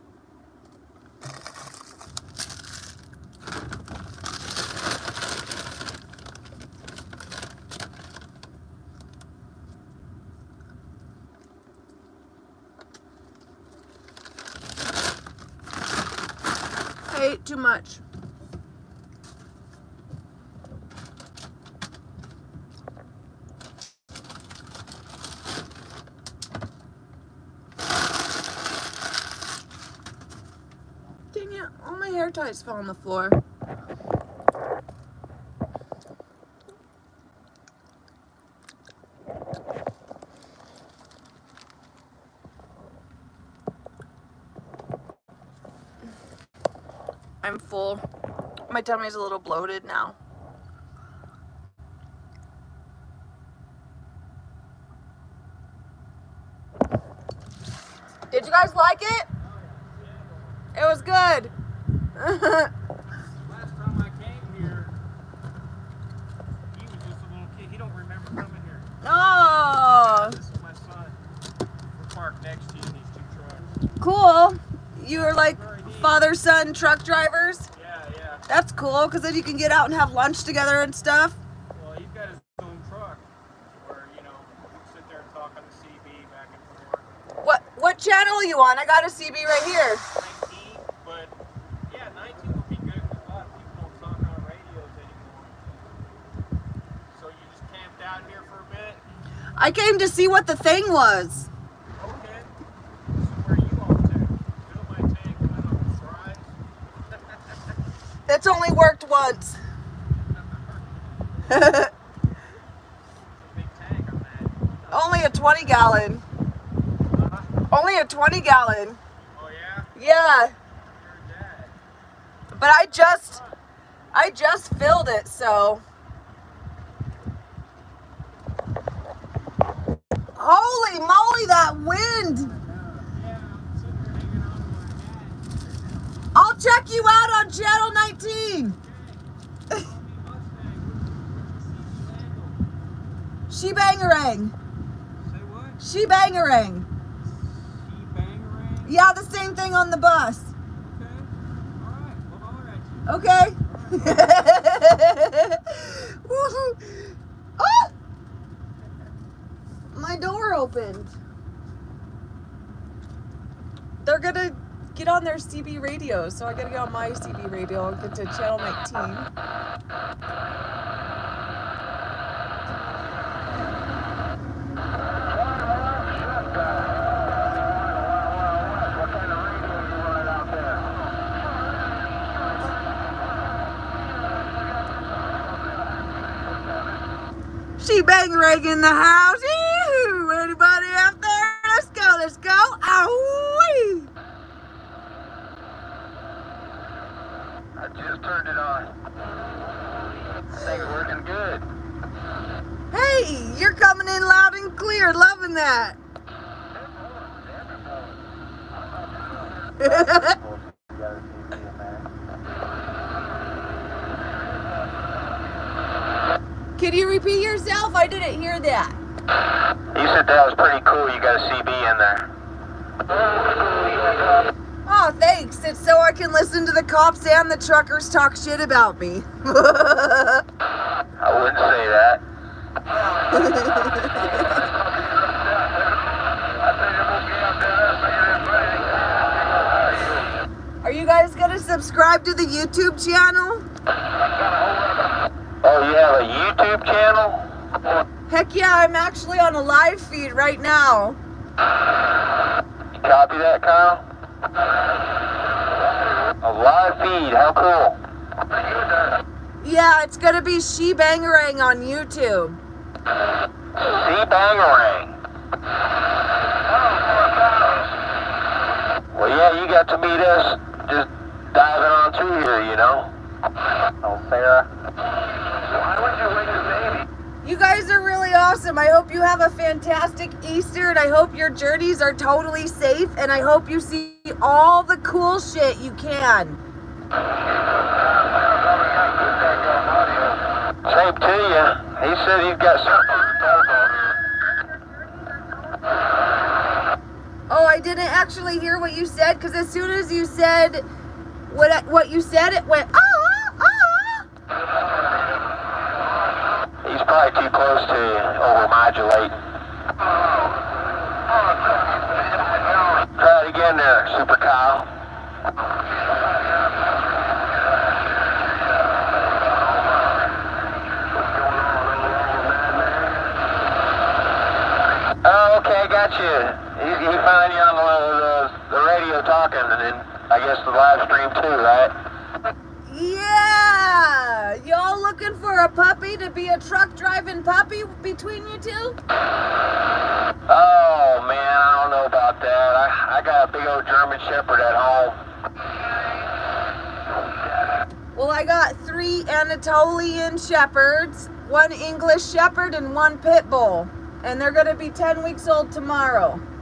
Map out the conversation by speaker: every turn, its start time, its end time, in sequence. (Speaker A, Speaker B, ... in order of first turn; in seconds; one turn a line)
Speaker A: 17.1-18.0
Speaker A: 31.3-33.4
Speaker A: 47.4-48.0
Speaker A: 48.7-50.2
Speaker A: 58.3-59.3
Speaker B: 59.4-60.6
Speaker A: 60.7-61.5
Speaker A: 62.1-62.7
Speaker B: 63.4-64.9
Speaker B: 66.7-68.9
Speaker A: 69.0-70.4
Speaker B: 69.8-71.2
Speaker B: 72.0-73.7
Speaker A: 74.0-77.7
Speaker B: 75.3-76.2
Speaker B: 77.7-78.4
Speaker A: 78.5-81.4
Speaker B: 81.7-83.2
Speaker B: 83.8-87.2
Speaker A: 87.4-90.1
Speaker B: 90.1-91.3
Speaker B: 91.9-96.1
Speaker B: 97.1-99.0
Speaker A: 99.6-101.5
Speaker B: 102.0-102.5
Speaker B: 103.1-106.5
Speaker A: 108.3-109.6
Speaker B: 110.2-111.5
Speaker A: 111.5-111.9
Speaker B: 113.3-115.0
Speaker A: 114.9-116.2
Speaker B: 117.1-117.5
Speaker A: 117.7-119.0
Speaker B: 119.3-119.9
Speaker A: 119.9-120.5
Speaker B: 120.9-121.7
Speaker A: 122.5-123.4
Speaker B: 123.3-123.5
Speaker A: 124.1-125.8
Speaker A: 130.3-132.5
Speaker B: 133.0-136.0
Speaker A: 136.3-138.8
Speaker B: 138.8-142.7
Speaker A: 143.5-144.5
Speaker B: 145.2-145.8
Speaker A: 145.8-146.9
Speaker B: 147.3-148.9
Speaker A: 148.8-150.5
Speaker B: 150.8-154.2
Speaker A: 153.1-157.9
Speaker A: 159.9-161.2
Speaker A: 164.0-169.3
Speaker A: 187.8-194.1
Speaker C: 197.8-198.9
Speaker C: 200.5-201.6
Speaker A: 202.9-206.0
Speaker A: 209.8-210.4
Speaker C: 211.5-211.8
Speaker A: 216.8-219.0
Speaker C: 219.9-222.3
Speaker A: 224.8-230.4
Speaker C: 231.2-232.2
Speaker A: 233.2-234.7
Speaker A: 240.8-243.6
Speaker C: 245.6-247.4
Speaker A: 248.3-251.2
Speaker C: 253.0-254.0
Speaker C: 256.4-258.0
Speaker A: 259.6-262.6
Speaker C: 263.8-265.1
Speaker C: 269.1-273.1
Speaker C: 274.0-274.6
Speaker A: 277.4-286.6
Speaker C: 290.8-293.5
Speaker A: 297.5-300.9
Speaker A: 301.5-304.3
Speaker C: 306.8-309.4
Speaker C: 313.2-314.9
Speaker C: 325.2-331.9
Speaker A: 332.9-339.0
Speaker C: 340.5-345.2
Speaker A: 348.1-356.4